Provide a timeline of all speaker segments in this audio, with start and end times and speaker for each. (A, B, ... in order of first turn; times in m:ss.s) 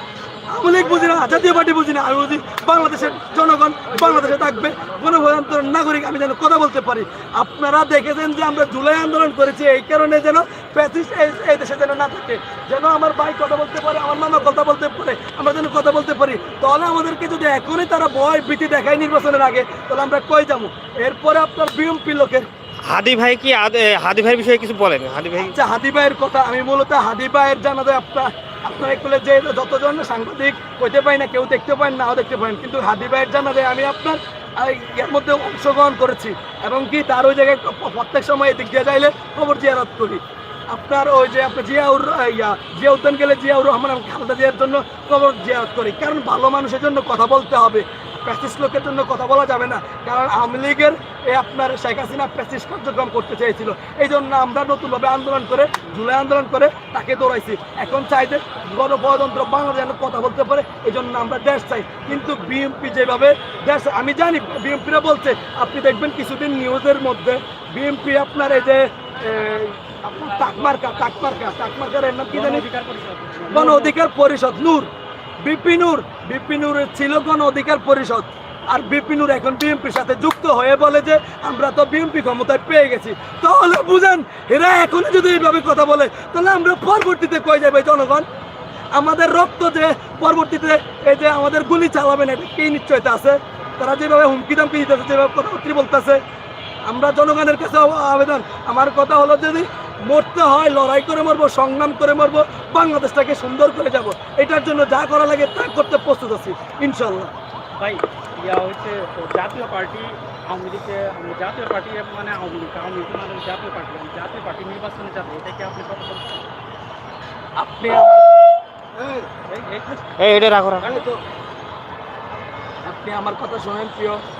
0:00.5-0:22.5 A
0:22.8-0:25.6 B
0:25.4-1:12.6 A
1:12.3-1:14.0 C
1:13.5-1:14.9 A
1:15.4-1:28.2 A
1:28.9-1:36.2 A
1:36.9-1:47.3 A
1:47.8-1:56.5 C
1:57.6-1:58.4 A
1:59.0-1:59.3 A
1:59.5-2:00.0 C
2:00.2-2:01.0 B
2:00.8-2:01.2 A
2:02.8-2:04.2 A